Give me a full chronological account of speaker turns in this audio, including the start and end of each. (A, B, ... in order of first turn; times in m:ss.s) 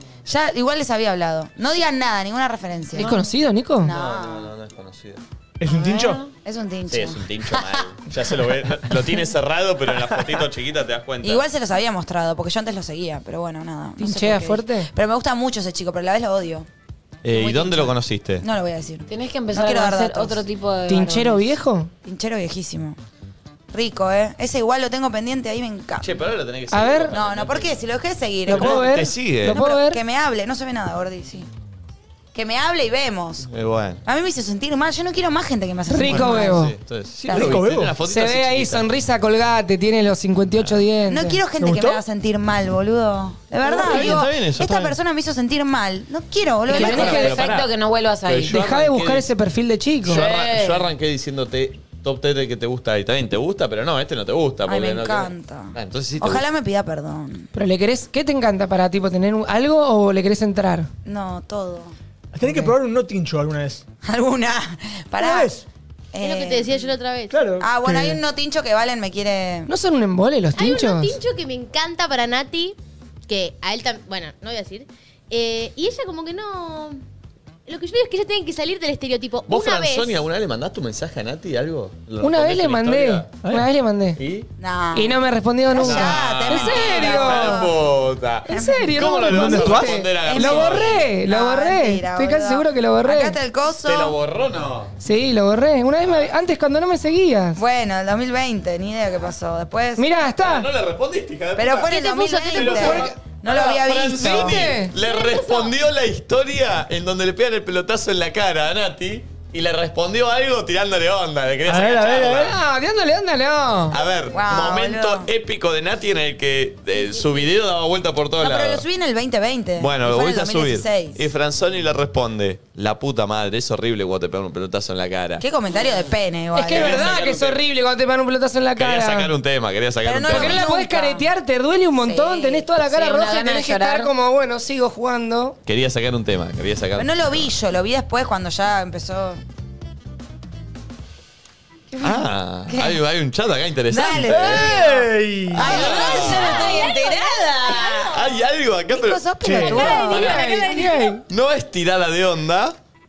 0:00.3-0:03.2 A
0:03.0-0:03.3 B
0:03.0-0:03.9 C
0:03.8-0:04.5 A
0:03.9-0:05.2 D
0:05.6-0:06.2 E
0:05.7-0:06.3 B
0:06.4-0:07.2 A
0:06.9-0:11.4 D
0:11.2-0:16.7 A
0:14.0-0:14.9 C
0:17.2-0:18.4 D
0:17.3-0:20.4 A
0:19.1-0:21.6 B
0:20.9-0:21.9 C
0:22.0-0:23.0 A
0:23.7-0:26.2 A
0:26.0-0:27.8 D
0:26.7-0:27.2 C
0:27.1-0:31.5 A
0:28.5-0:29.6 D
0:28.5-0:30.0 C
0:32.3-0:33.5 A
0:33.5-0:34.0 D
0:34.0-0:36.6 A
0:35.9-0:36.7 C
0:36.1-0:38.9 D
0:37.3-0:41.4 C
0:37.3-0:38.0 E
0:41.1-0:47.3 A
0:41.6-0:42.0 E
0:43.7-0:44.9 D
0:43.9-0:44.2 E
0:46.7-0:48.6 B
0:46.7-0:47.6 C
0:46.8-0:47.7 D
0:48.2-0:49.3 D
0:48.5-0:50.2 C
0:50.0-0:56.4 D
0:50.1-0:50.9 B
0:54.7-0:57.5 A
0:57.5-1:00.9 C
1:01.0-1:02.0 A
1:02.3-1:03.8 E
1:04.0-1:05.6 A
1:05.2-1:05.6 E
1:06.1-1:06.9 A
1:06.2-1:07.5 F
1:07.3-1:08.2 E
1:07.6-1:09.7 A
1:09.7-1:11.2 C
1:10.5-1:12.8 F
1:13.3-1:17.0 F
1:17.7-1:20.2 F
1:19.5-1:23.3 D
1:22.2-1:24.2 C
1:23.4-1:23.7 E
1:24.2-1:24.5 D
1:24.6-1:27.8 A
1:25.0-1:27.6 C
1:25.8-1:31.0 D
1:28.5-1:33.4 C
1:28.5-1:28.9 A
1:29.3-1:29.9 E
1:29.5-1:34.1 A
1:33.8-1:34.9 D
1:35.0-1:37.6 C
1:37.6-1:40.1 A
1:40.0-1:40.7 C
1:40.4-1:52.6 D
1:41.6-1:44.7 A
1:41.9-1:43.1 F
1:44.0-1:44.9 C
1:44.9-1:45.8 F
1:51.7-1:52.6 E
1:52.4-1:54.0 C
1:53.9-1:58.8 D
1:54.3-1:55.3 A
1:58.4-2:01.2 A
1:59.8-2:05.4 D
2:05.4-2:07.2 A
2:06.6-2:09.3 C
2:06.7-2:07.6 D
2:08.8-2:10.7 D
2:10.0-2:11.3 A
2:10.3-2:15.6 C
2:12.1-2:14.1 B
2:15.7-2:17.5 D
2:17.0-2:19.4 A
2:21.9-2:23.0 A
2:22.0-2:24.9 D
2:23.9-2:26.8 A
2:24.1-2:25.6 E
2:25.5-2:26.9 D
2:25.6-2:28.2 B
2:27.8-2:29.3 D
2:28.9-2:30.5 A
2:29.4-2:29.9 E
2:29.8-2:31.1 B
2:30.0-2:31.2 C
2:30.0-2:30.7 D
2:31.3-2:32.8 D